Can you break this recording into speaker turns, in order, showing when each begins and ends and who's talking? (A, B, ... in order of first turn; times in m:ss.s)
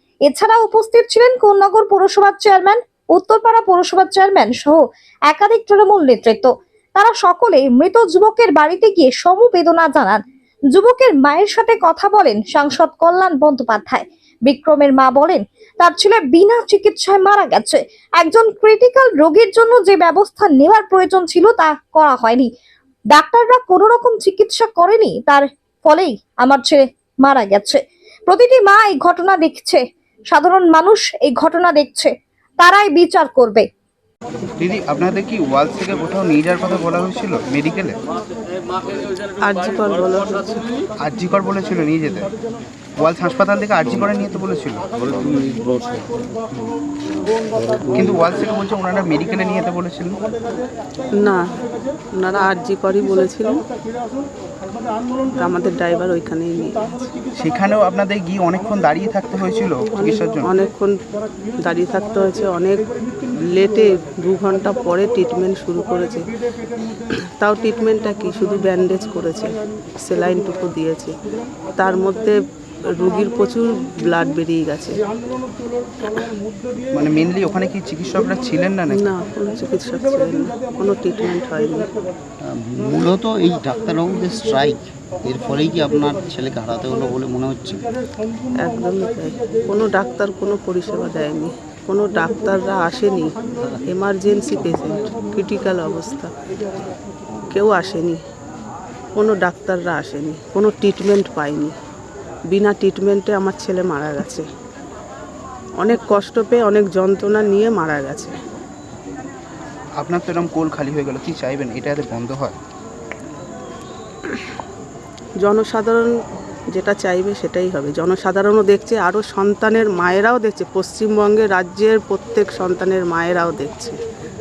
0:00.3-0:10.2 A
0:10.7-0:22.5 A
0:23.1-0:33.7 A
0:34.6-0:38.0 B
0:39.4-0:40.8 C
0:41.0-0:42.3 B
0:43.0-0:44.9 B
0:47.8-0:50.2 B
0:51.2-0:51.5 C
0:52.1-0:53.6 C
0:55.4-0:57.1 C
0:57.4-1:00.5 B
1:00.4-1:01.0 C
1:01.6-1:02.9 C
1:03.4-1:06.3 C
1:07.1-1:11.2 C
1:11.8-1:15.0 C
1:16.9-1:19.1 B
1:18.9-1:21.9 C
1:22.4-1:27.8 D
1:28.6-1:36.3 C
1:37.5-1:38.2 C
1:39.2-1:41.8 C
1:42.5-1:44.5 C
1:45.8-1:48.4 C
1:50.0-1:52.6 B
1:55.4-1:56.1 C
1:56.7-2:04.0 C